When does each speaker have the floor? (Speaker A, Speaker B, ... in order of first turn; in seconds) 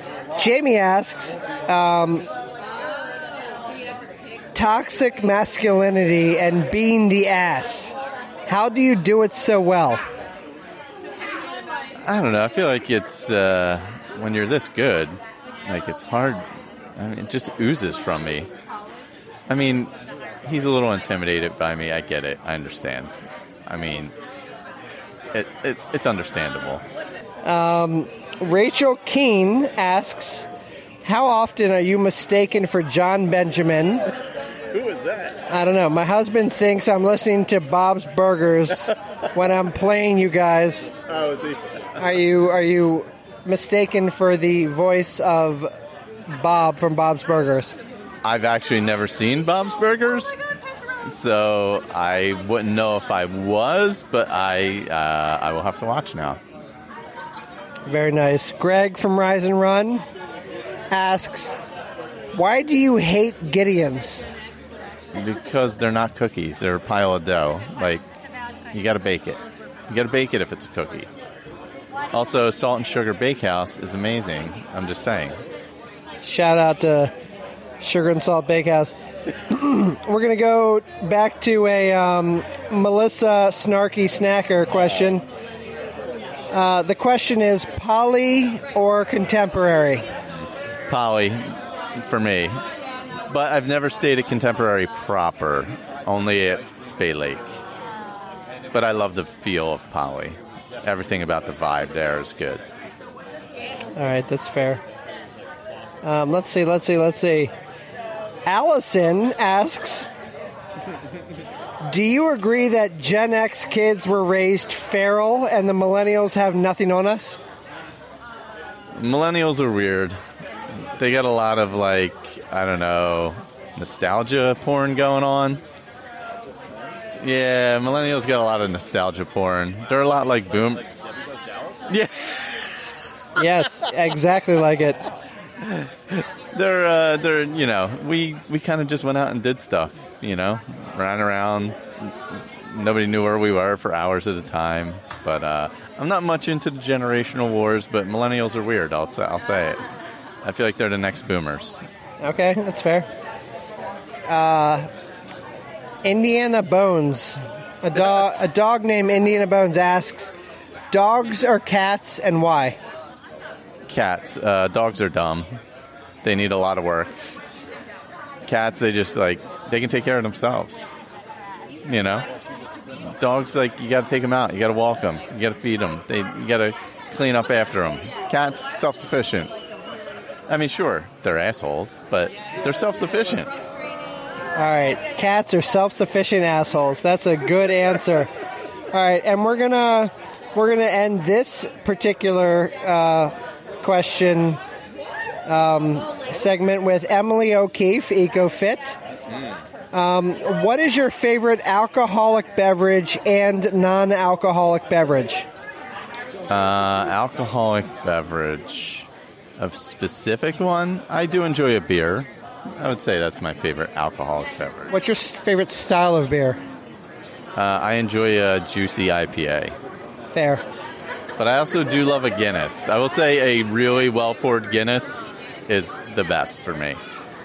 Speaker A: 0.4-2.3, 4.5-8.0, 8.5-10.0, 27.4-30.5, 31.0-34.1, 35.5-40.9, 42.0-45.7, 46.3-47.8, 57.9-60.0, 60.9-61.6, 62.3-64.3, 76.2-77.1, 77.8-79.0, 79.5-85.2, 86.5-90.1, 104.0-104.8, 106.0-107.5, 108.5-110.1, 111.8-117.4, 133.4-135.0, 152.2-153.1, 154.3-154.9, 156.1-160.3, 160.9-162.8, 184.6-188.3, 188.9-194.6, 195.5-199.0, 199.9-205.5, 214.9-216.6, 220.3-220.6
Speaker B: 12.0-16.4, 17.0-18.5, 19.5-19.9, 20.4-24.1, 25.3-26.8, 34.7-35.4, 41.1-41.8, 48.2-50.3, 51.1-56.4, 65.1-68.0, 68.7-71.1, 72.1-75.4, 90.9-92.6, 93.3-97.5, 98.7-102.6, 119.0-120.2, 121.0-125.6, 127.2-130.9, 131.9-132.9, 135.6-149.8, 150.4-151.8, 163.9-165.5, 166.2-167.2, 168.5-170.9, 171.9-172.3, 173.2-179.5, 180.5-183.5, 206.5-214.9, 217.6-219.8, 221.4-227.0